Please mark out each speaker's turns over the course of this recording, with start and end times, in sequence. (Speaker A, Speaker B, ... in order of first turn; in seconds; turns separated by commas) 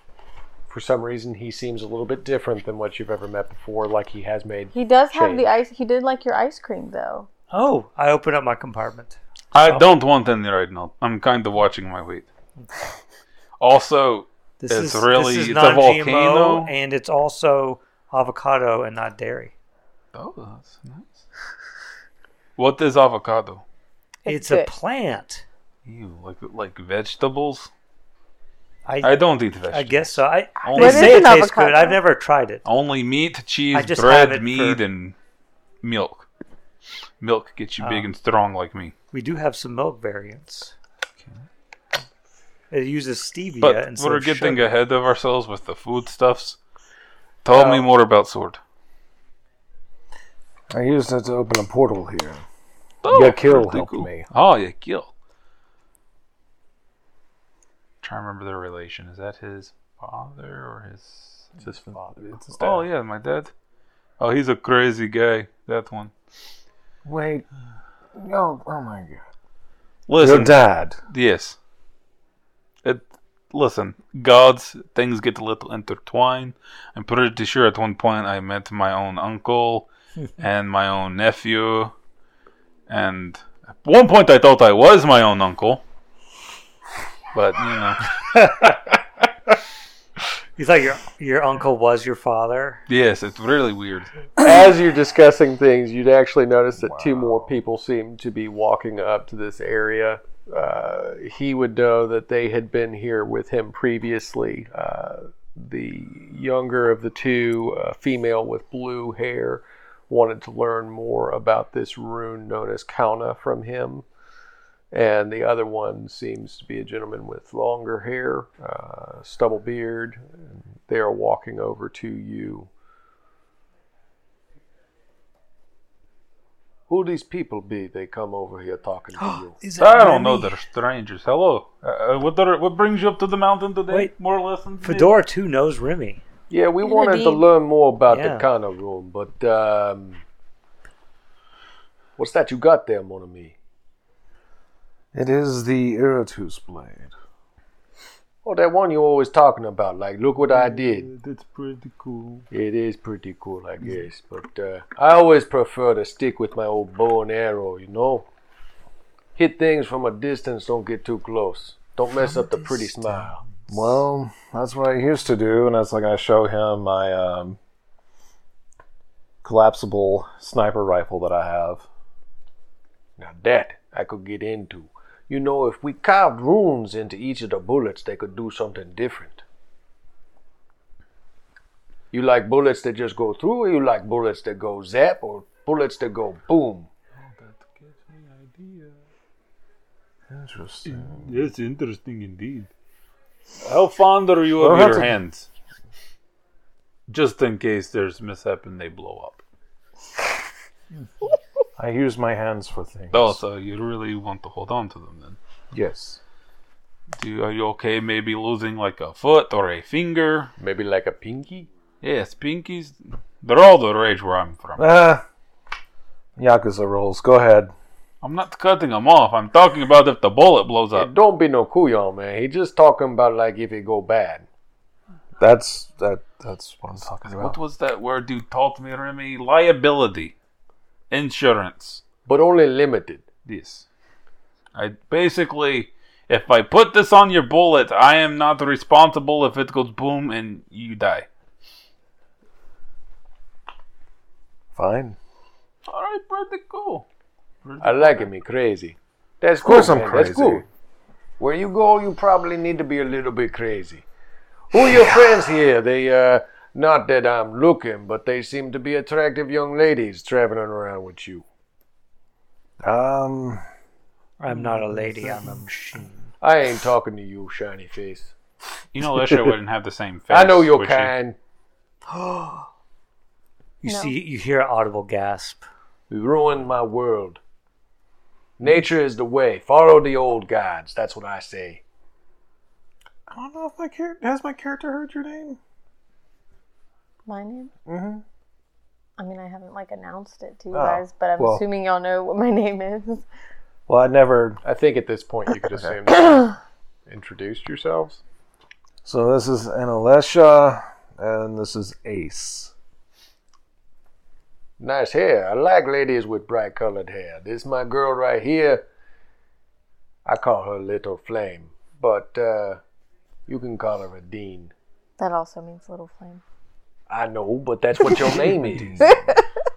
Speaker A: 0.7-5.5, Speaker B: 4.7-7.3, Speaker C: 7.5-9.8, Speaker D: 9.5-12.3, Speaker D: 13.6-16.7, Speaker C: 14.6-19.5, Speaker D: 20.1-21.2, Speaker D: 22.6-23.6, Speaker B: 24.2-24.7, Speaker C: 24.2-25.4, Speaker D: 25.8-27.7, Speaker C: 28.9-32.6, Speaker D: 29.0-31.3, Speaker B: 30.7-32.0, Speaker D: 32.6-35.1, Speaker C: 33.7-34.8, Speaker D: 35.8-36.3, Speaker D: 37.2-38.9, Speaker C: 37.8-38.1, Speaker C: 39.1-40.7, Speaker C: 42.7-44.7, Speaker D: 43.6-46.6, Speaker D: 47.4-48.6, Speaker A: 47.5-47.9, Speaker E: 50.7-52.4, Speaker D: 53.0-55.1, Speaker E: 53.1-54.3, Speaker D: 58.0-61.6, Speaker A: 61.6-62.9, Speaker D: 62.3-63.5, Speaker D: 64.2-66.1, Speaker E: 67.0-67.4, Speaker E: 68.1-69.2, Speaker D: 70.1-70.6, Speaker E: 70.2-71.0, Speaker D: 71.1-71.6, Speaker D: 72.8-81.9, Speaker D: 82.9-85.8, Speaker D: 87.3-88.1, Speaker C: 88.3-88.7, Speaker C: 90.6-92.8, Speaker D: 92.9-94.1, Speaker A: 94.4-114.0, Speaker E: 96.8-97.5, Speaker A: 114.9-122.7, Speaker A: 126.9-129.6, Speaker C: 129.2-130.6, Speaker D: 129.8-135.2, Speaker C: 134.8-136.2, Speaker A: 136.5-140.2, Speaker B: 136.8-137.4, Speaker C: 138.1-138.5, Speaker A: 142.2-143.6, Speaker E: 145.1-147.1, Speaker A: 148.4-151.1, Speaker D: 150.4-152.5, Speaker A: 152.5-158.2, Speaker A: 159.3-163.4, Speaker E: 163.7-167.6, Speaker E: 169.4-171.8, Speaker A: 173.2-179.4, Speaker A: 182.1-186.9, Speaker D: 187.2-189.0, Speaker E: 190.3-191.4, Speaker D: 190.8-192.7, Speaker D: 193.6-195.5, Speaker E: 194.6-195.2, Speaker D: 197.1-199.4, Speaker E: 201.8-203.4, Speaker D: 203.1-205.4, Speaker E: 205.7-206.2, Speaker D: 207.2-210.5, Speaker A: 210.6-211.7, Speaker D: 212.0-214.9, Speaker E: 214.8-215.2, Speaker E: 216.4-217.7, Speaker D: 218.2-221.1, Speaker A: 220.9-224.5, Speaker E: 225.4-227.6, Speaker D: 227.4-230.3, Speaker D: 231.1-232.0, Speaker A: 232.2-233.3, Speaker D: 233.4-233.8, Speaker D: 234.7-241.3, Speaker E: 244.7-245.2, Speaker D: 245.8-247.0, Speaker D: 247.6-248.3, Speaker A: 247.8-250.7, Speaker E: 249.6-250.6, Speaker A: 251.4-254.0, Speaker A: 254.7-261.4, Speaker E: 254.8-255.3, Speaker E: 262.8-263.6, Speaker C: 264.4-266.3, Speaker A: 266.4-268.3, Speaker D: 268.9-271.1, Speaker E: 269.2-269.5, Speaker A: 270.3-271.4, Speaker C: 273.8-275.6, Speaker B: 273.8-274.1, Speaker A: 276.1-277.4, Speaker A: 278.6-281.8, Speaker E: 283.3-285.6, Speaker B: 287.2-287.7, Speaker E: 287.9-288.2, Speaker B: 289.2-293.2, Speaker E: 290.7-291.6, Speaker E: 293.9-294.6, Speaker A: 294.6-298.2, Speaker E: 299.0-302.7, Speaker A: 304.8-308.8, Speaker A: 310.2-312.8, Speaker A: 313.5-314.7, Speaker B: 315.2-316.4, Speaker A: 317.1-319.1, Speaker E: 318.7-319.4, Speaker B: 319.0-319.4